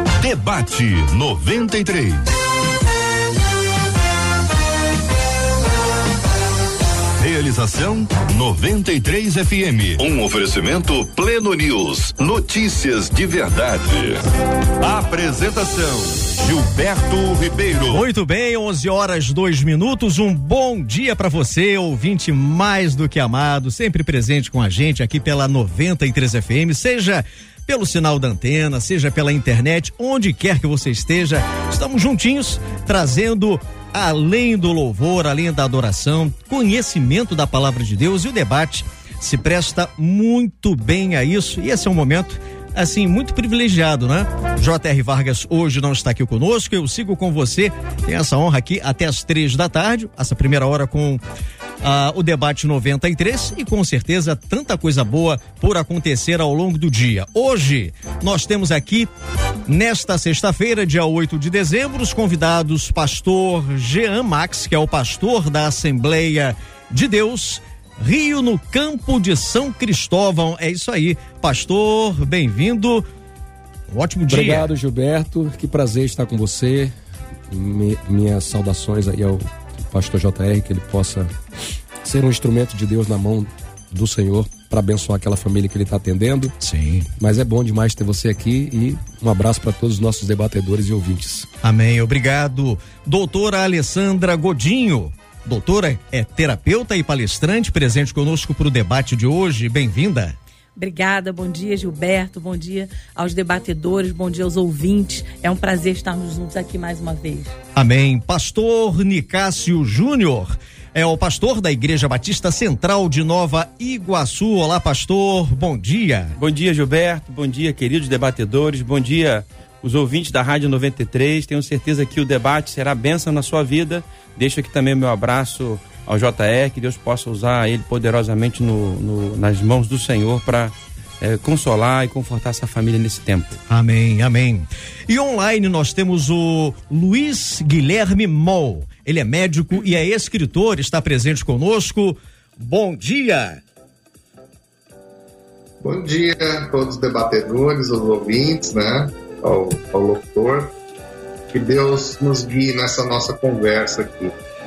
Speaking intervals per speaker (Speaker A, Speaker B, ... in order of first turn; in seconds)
Speaker A: 0.2-2.3, 7.2-14.2, 14.8-18.1
Speaker B: 17.9-51.2, 51.8-59.1, 59.7-73.0, 73.9-74.7, 86.6-87.1, 91.6-100.4, 107.8-116.4, 133.7-143.6
Speaker C: 74.3-76.9, 77.5-81.3, 82.0-86.5, 87.2-91.5
Speaker D: 100.8-107.5
Speaker E: 116.4-133.6
Speaker F: 145.8-150.7, 151.5-154.3